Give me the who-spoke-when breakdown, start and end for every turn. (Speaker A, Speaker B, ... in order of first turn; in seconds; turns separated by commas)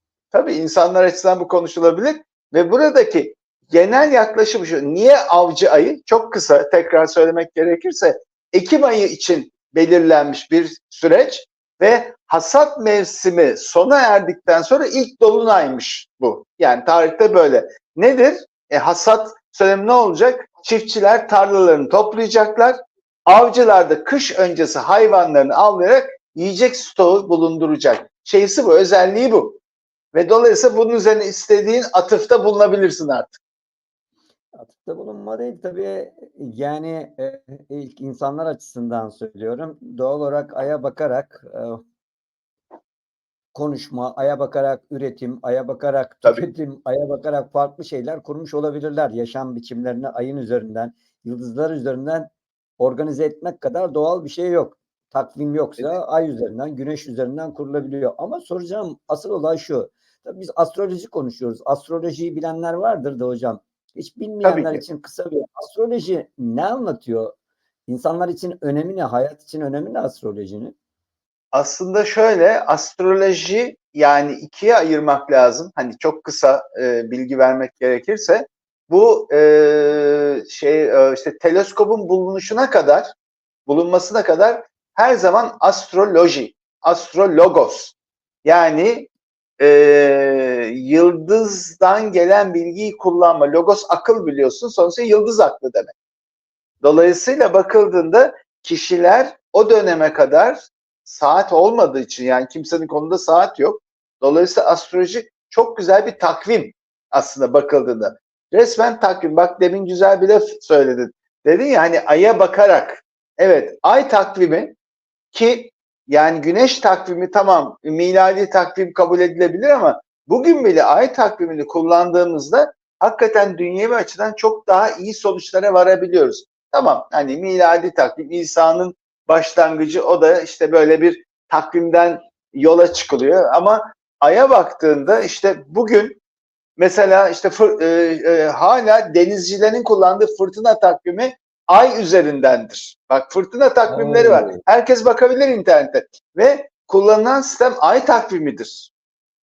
Speaker A: 0.3-29.6, Speaker A: 30.1-33.4, Speaker B: 34.6-41.8, Speaker B: 43.5-67.3, Speaker A: 64.4-64.8, Speaker B: 67.9-70.8, Speaker A: 71.5-83.1, Speaker A: 83.7-95.9, Speaker A: 96.8-114.8, Speaker A: 115.3-136.2, Speaker A: 136.8-148.9, Speaker B: 143.9-144.6